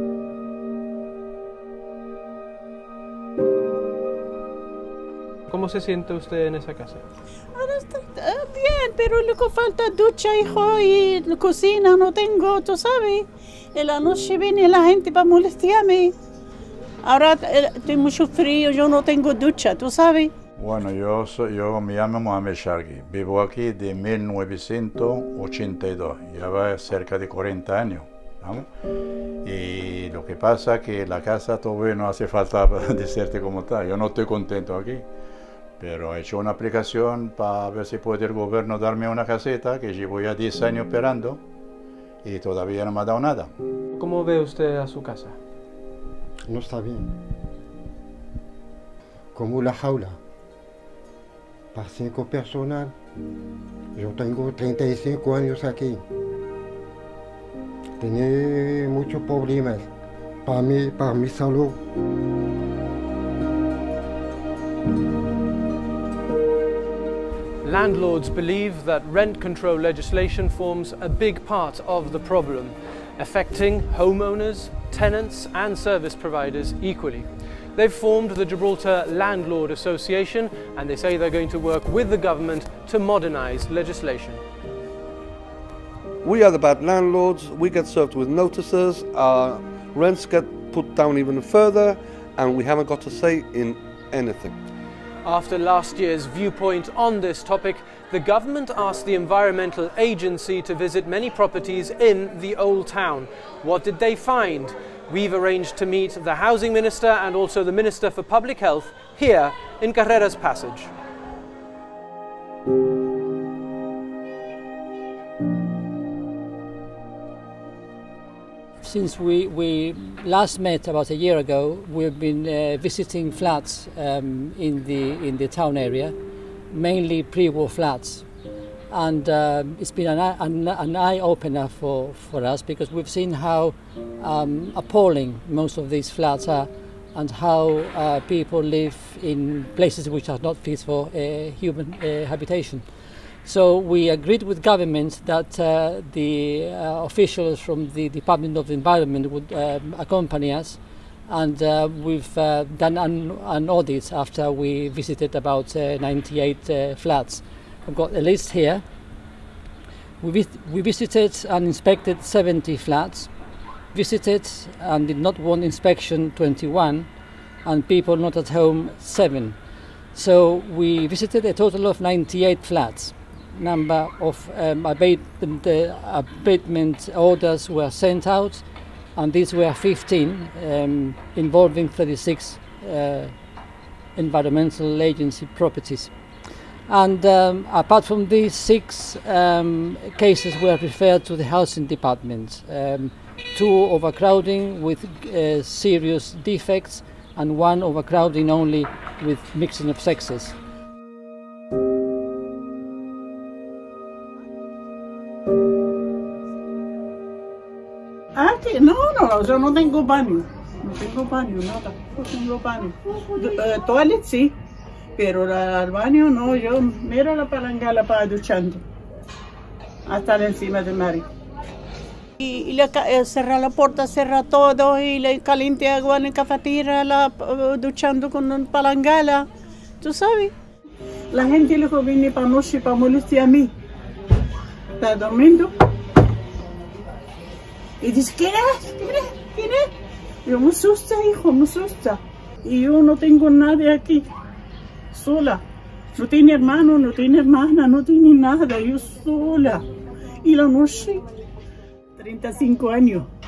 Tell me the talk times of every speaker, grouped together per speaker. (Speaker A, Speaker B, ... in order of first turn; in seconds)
Speaker A: 5.5-7.0, 43.9-45.4, 67.6-84.4, 95.2-110.9
Speaker B: 7.5-16.1, 17.0-20.3, 208.3-214.6, 215.2-218.8, 220.1-221.3, 222.4-229.4, 230.0-230.5, 231.3-233.7, 235.0-235.7, 238.0-239.9, 240.4-244.2, 245.1-245.6, 246.1-249.8, 250.4-251.2, 252.2-253.3
Speaker C: 20.6-28.7, 29.4-35.0, 35.8-41.4, 42.2-43.5
Speaker D: 46.5-47.1, 49.3-50.2, 51.7-52.9, 54.0-56.0, 58.0-59.9, 60.5-61.8
Speaker E: 86.2-94.6
Speaker F: 118.8-126.2, 126.7-128.2, 128.9-142.9, 143.4-158.8, 160.2-163.3, 163.9-167.1, 167.6-169.6, 170.1-178.6, 179.2-183.3, 184.2-186.1, 186.9-200.6